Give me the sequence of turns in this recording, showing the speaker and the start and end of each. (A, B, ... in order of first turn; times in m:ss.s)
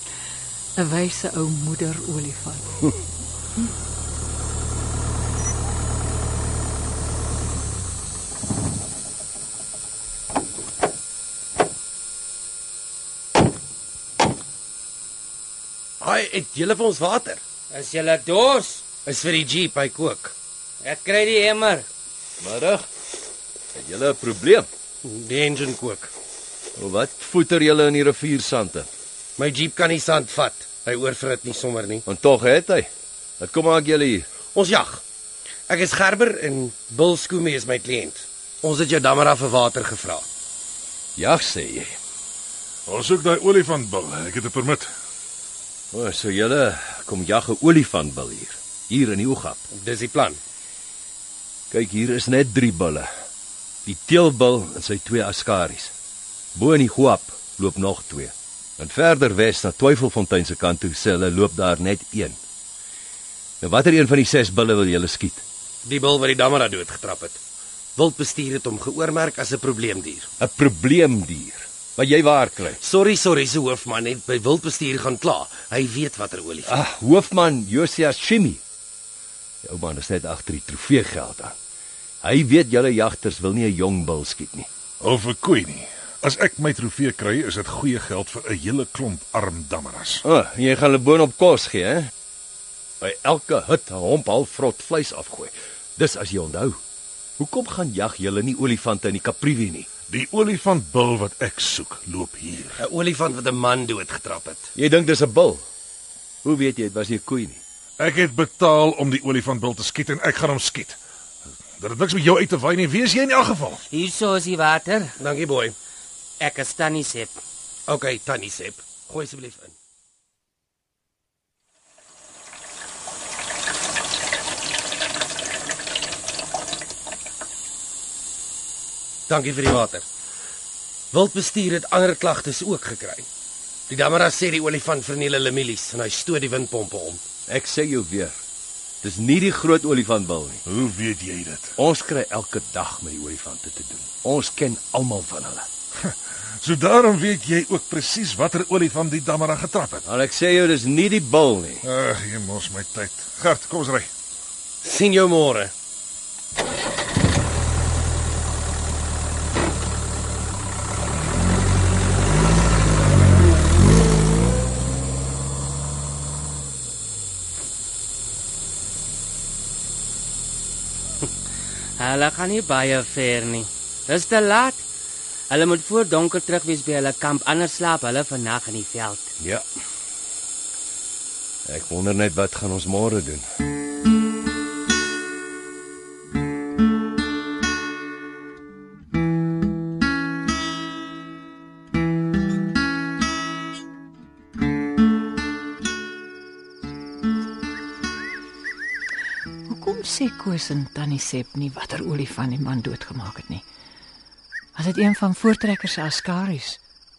0:00.8-0:02.8 A
0:16.0-0:17.4 B
0:17.7-0:18.8 C
0:19.0-0:20.3 B
0:20.8-0:21.9 C
0:22.4-0:22.9 D
0:23.8-0:24.7 D
0:25.0-0:26.1 B
0:26.8-0:28.9 D
0:29.4-0:32.0 B
0:32.1-0:32.9 D
0:33.4-0:34.3 D
0:34.5-0:35.0 B
0:35.7-0:40.3 B
0:41.2-0:42.0 D
0:42.9-0:44.9 E
0:45.9-0:49.6 D
0:49.7-0:50.4 B
0:51.7-0:53.1 D
0:53.8-0:55.9 D
0:56.6-1:02.4 D
1:03.6-1:05.4 D
1:05.8-1:07.4 B
1:08.0-1:10.3 B
1:10.4-1:12.8 D
1:12.8-1:16.7 B
1:16.7-1:18.6 D
1:19.6-1:21.6 D
1:22.2-1:24.7 D
1:25.0-1:30.2 E
1:30.2-1:32.1 D
1:33.0-1:36.8 D
1:37.4-1:39.9 D
1:40.1-1:42.8 E
1:42.8-1:44.7 B
1:44.8-1:45.6 D
1:46.4-1:47.6 D
1:48.0-1:51.0 E
1:51.8-1:53.8 E
1:53.9-1:55.2 C
1:55.2-1:55.8 B
1:56.4-1:57.4 C
1:57.9-1:59.8 B
2:09.3-2:10.0 B
2:11.1-2:13.3 B
2:13.9-2:17.2 B
2:17.5-2:18.4 D
2:19.0-2:20.6 D
2:20.7-2:21.8 E
2:21.8-2:25.7 D
2:26.0-2:30.0 E
2:30.0-2:31.8 D
2:31.8-2:34.1 E
2:34.8-2:35.7 B
2:52.0-2:54.8 C
2:55.5-2:59.3 C
2:59.4-2:59.6 D
3:01.7-3:03.4 D
3:19.7-3:23.6 A
3:24.8-3:26.8 A